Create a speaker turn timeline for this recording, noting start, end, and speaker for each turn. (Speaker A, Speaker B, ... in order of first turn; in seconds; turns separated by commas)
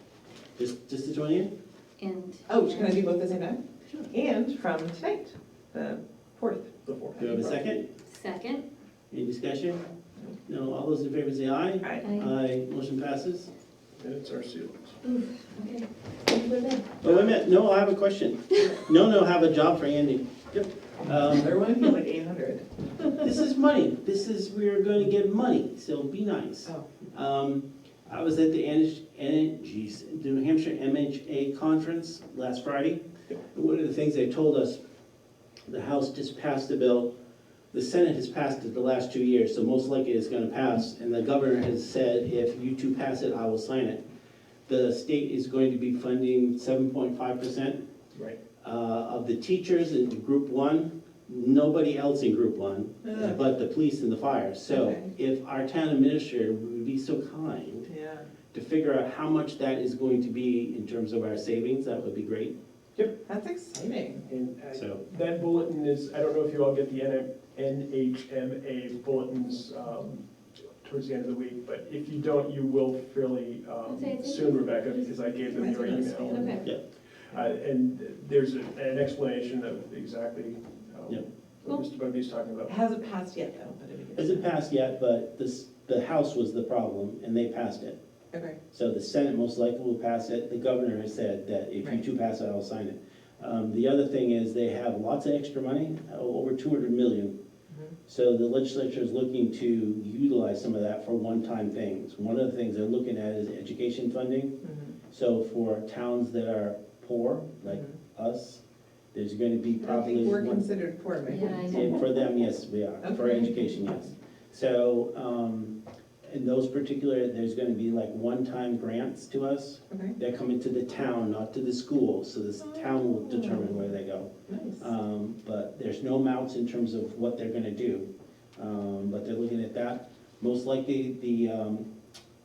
Speaker A: 0.6-1.5, Speaker B: 2.0-3.0, Speaker C: 2.5-7.3, Speaker A: 7.2-7.8, Speaker B: 8.1-8.6, Speaker A: 9.1-9.8, Speaker A: 10.4-13.5, Speaker C: 11.8-12.1, Speaker B: 12.0-12.3, Speaker D: 14.0-15.0, Speaker B: 15.0-16.9, Speaker A: 17.0-21.6, Speaker C: 17.1-17.3, Speaker C: 21.2-23.2, Speaker A: 23.2-34.8, Speaker A: 35.7-37.1, Speaker A: 37.7-44.0, Speaker A: 44.7-47.8, Speaker A: 48.6-57.9, Speaker C: 53.0-53.4, Speaker C: 54.7-55.1, Speaker C: 57.9-58.3, Speaker A: 58.5-62.5, Speaker C: 63.2-64.2, Speaker D: 64.3-70.2, Speaker A: 64.7-65.0, Speaker D: 70.8-76.6, Speaker B: 73.9-75.4, Speaker C: 75.5-76.5, Speaker B: 76.2-76.7, Speaker D: 77.2-82.7, Speaker C: 82.7-84.5, Speaker A: 84.2-88.0, Speaker C: 88.3-88.6, Speaker A: 88.7-97.3, Speaker C: 97.7-98.0, Speaker A: 98.0-104.5, Speaker C: 104.6-105.0, Speaker A: 105.1-108.6, Speaker C: 107.6-108.0, Speaker A: 109.1-110.6, Speaker C: 109.8-112.0, Speaker B: 111.2-112.1, Speaker A: 111.7-131.9, Speaker C: 113.0-113.8, Speaker C: 119.9-120.2, Speaker C: 122.7-123.9, Speaker C: 124.5-124.9